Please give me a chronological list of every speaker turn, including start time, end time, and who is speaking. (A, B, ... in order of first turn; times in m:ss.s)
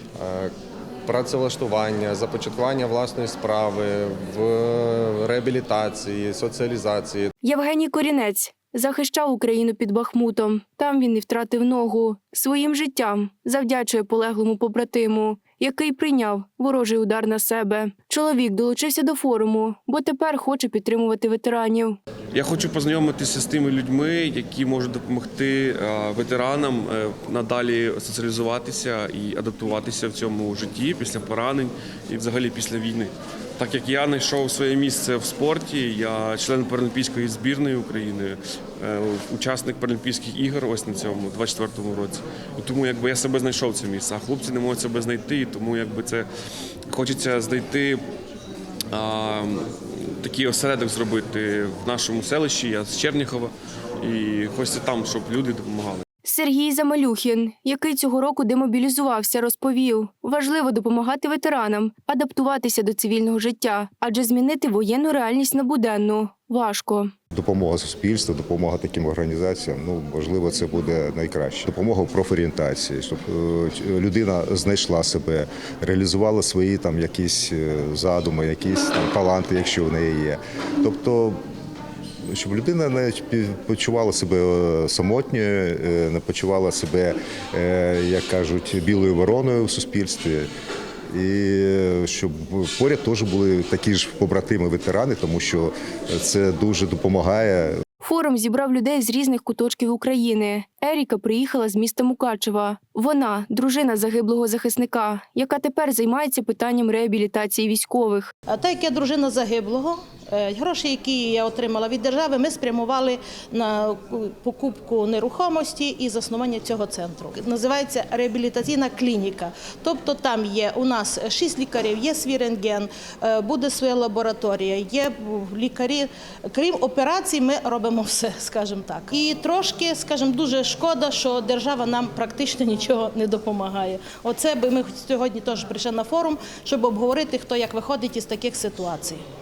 0:00.2-0:00.5 A
0:01.1-0:07.3 A
0:07.4-0:22.0 B
0:22.3-0:46.2 C
0:46.9-0:48.0 C
0:48.9-0:56.0 C
0:56.2-1:07.1 B
1:07.3-1:21.4 D
1:22.3-1:30.5 D
1:31.1-1:37.8 D
1:38.0-1:48.3 B
1:48.5-2:19.2 E